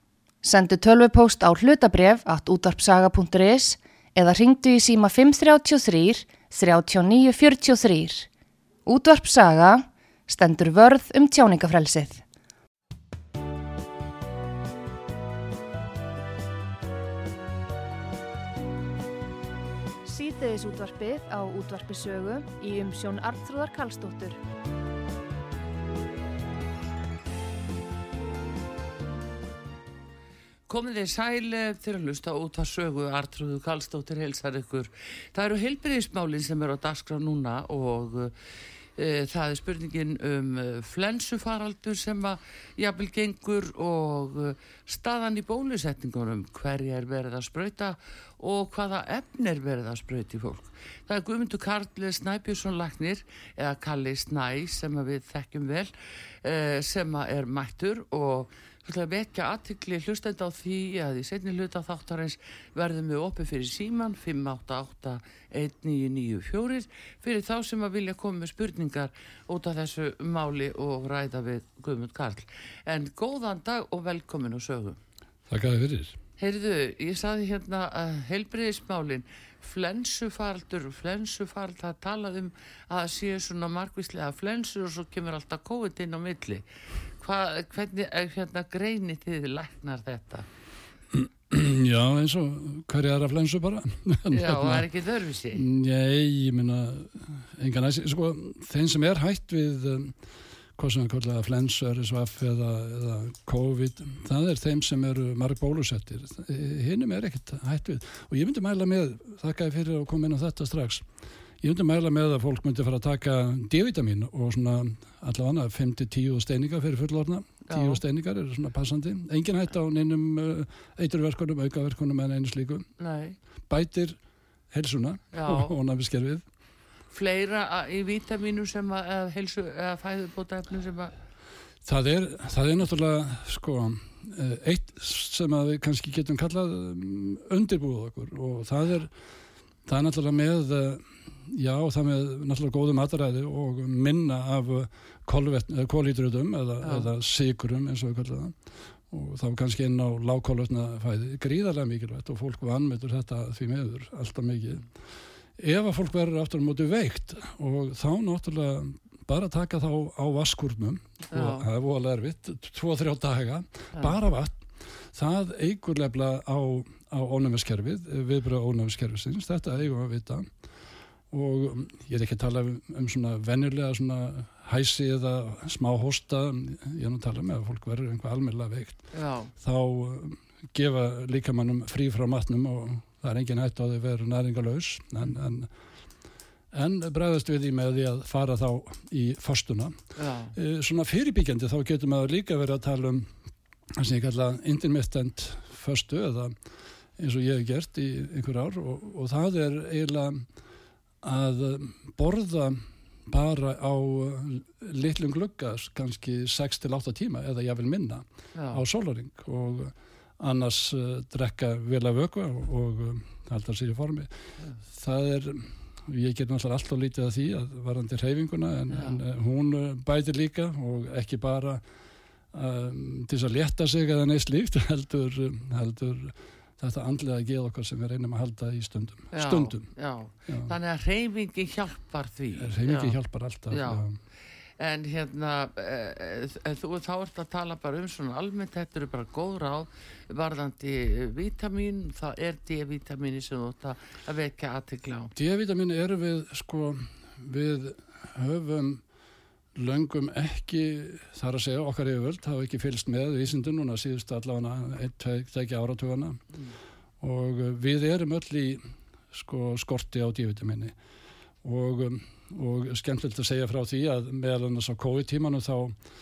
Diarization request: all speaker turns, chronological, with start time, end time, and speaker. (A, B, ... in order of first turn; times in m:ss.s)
0:00.4-0:08.3 A
0:08.8-0:12.2 A
0:20.0-0:24.4 A
0:30.7-0:38.3 B
0:39.0-0:55.9 B
0:56.4-1:15.0 B
1:15.5-1:16.2 C
1:16.4-1:26.6 B
1:27.2-1:30.4 B
1:31.1-1:34.8 C
1:34.3-1:35.6 B
1:35.5-1:40.2 C
1:40.8-1:51.0 C
1:51.6-2:02.9 C
1:57.7-1:58.0 B
2:03.0-2:03.4 B
2:03.7-2:04.2 C
2:04.7-2:06.4 C
2:05.3-2:05.7 B
2:07.1-2:11.1 B
2:11.8-2:19.1 C
2:19.8-2:28.6 C
2:26.8-2:27.1 B
2:29.1-2:34.8 C
2:35.6-2:50.5 C
2:41.3-2:41.6 B
2:51.3-2:59.0 C
2:59.1-2:59.5 B
2:59.6-3:05.7 C
3:06.7-3:13.3 C
3:10.2-3:10.5 B
3:13.9-3:16.5 C
3:17.2-3:20.4 C
3:21.2-3:34.3 C
3:28.5-3:28.8 B
3:34.9-3:41.8 C
3:38.9-3:39.2 B
3:42.5-3:49.9 C
3:49.3-3:53.2 B
3:50.5-3:50.7 C
3:52.6-3:54.2 C
3:53.7-3:54.0 B
3:54.8-4:05.3 B
4:05.3-4:09.0 C
4:09.7-4:16.4 C
4:17.2-4:20.9 C
4:21.6-4:26.0 C